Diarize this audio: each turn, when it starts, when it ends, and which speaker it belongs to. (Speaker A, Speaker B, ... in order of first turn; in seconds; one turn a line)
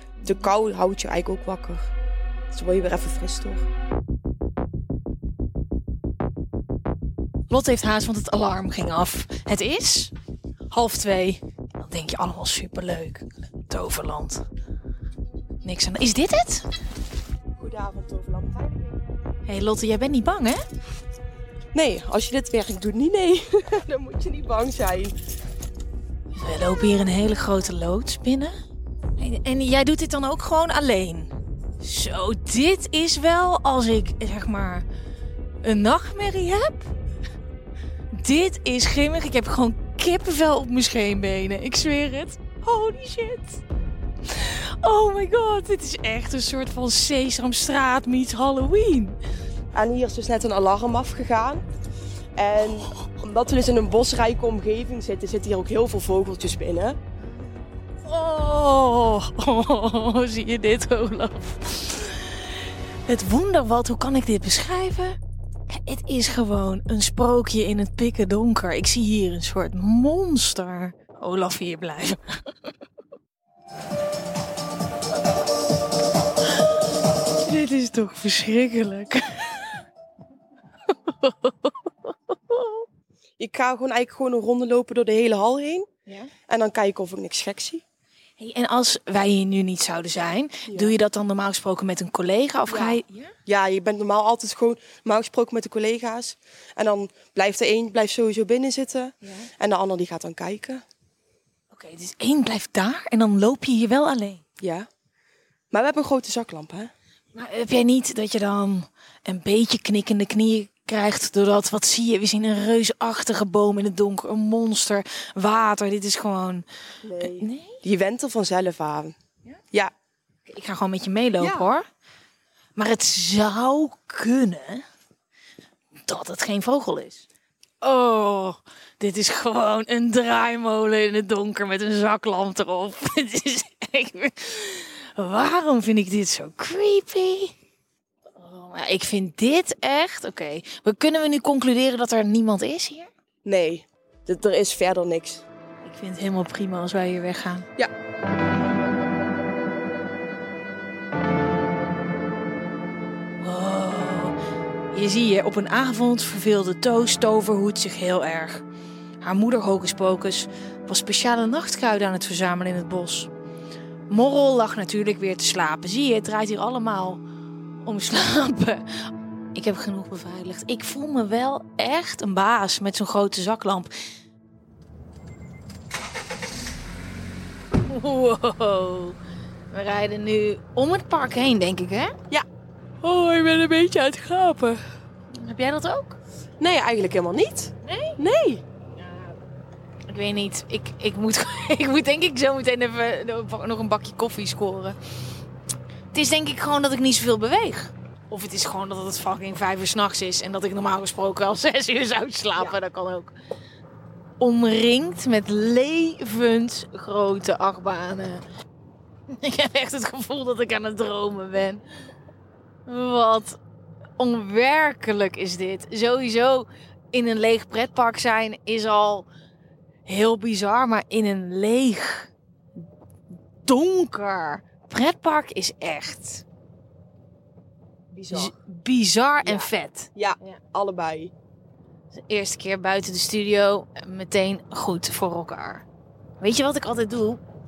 Speaker A: 0.2-1.9
Speaker A: 2.5-3.7
Speaker B: 7.5-10.1
Speaker B: 10.7-14.4
Speaker B: 15.6-16.7
Speaker A: 17.6-19.0
Speaker B: 19.5-20.6
Speaker A: 21.7-25.1
Speaker B: 26.3-28.5
Speaker B: 29.2-34.8
Speaker B: 35.6-36.9
Speaker B: 38.1-43.6
Speaker B: 44.3-49.1
Speaker A: 49.7-51.6
Speaker A: 52.4-57.0
Speaker B: 58.0-62.4
Speaker B: 63.1-65.2
Speaker B: 65.7-72.4
Speaker B: 77.4-79.8
Speaker B: 81.1-81.7
Speaker B: 82.5-82.8
Speaker A: 83.4-85.9
Speaker A: 86.5-87.8
Speaker B: 88.4-93.3
Speaker A: 90.7-90.9
Speaker A: 92.7-100.8
Speaker B: 99.2-99.5
Speaker B: 101.7-104.4
Speaker A: 104.6-104.9
Speaker A: 105.7-106.9
Speaker B: 107.3-116.6
Speaker A: 117.0-119.1
Speaker B: 117.2-117.8
Speaker B: 120.5-121.8
Speaker A: 121.4-121.7
Speaker B: 122.8-124.8
Speaker B: 126.1-127.2
Speaker B: 127.8-137.5
Speaker B: 138.4-143.1
Speaker A: 143.4-145.4
Speaker B: 145.8-147.7
Speaker B: 153.4-154.3
Speaker B: 154.9-158.6
Speaker B: 159.2-163.3
Speaker B: 164.1-167.2
Speaker B: 167.8-168.8
Speaker B: 169.5-173.9
Speaker B: 177.8-179.2
Speaker B: 179.7-182.1
Speaker B: 183.0-184.8
Speaker B: 185.3-186.2
Speaker A: 186.6-188.6
Speaker B: 187.8-188.2
Speaker B: 189.0-189.3
Speaker B: 190.1-194.9
Speaker B: 196.1-203.3
Speaker B: 204.4-208.4
Speaker B: 209.3-211.8
Speaker B: 212.9-213.6
Speaker B: 214.2-219.3
Speaker B: 220.1-222.3
Speaker B: 223.6-226.4
Speaker A: 228.1-228.5
Speaker B: 228.3-230.6
Speaker A: 229.4-231.3
Speaker B: 232.1-235.8
Speaker B: 236.4-237.4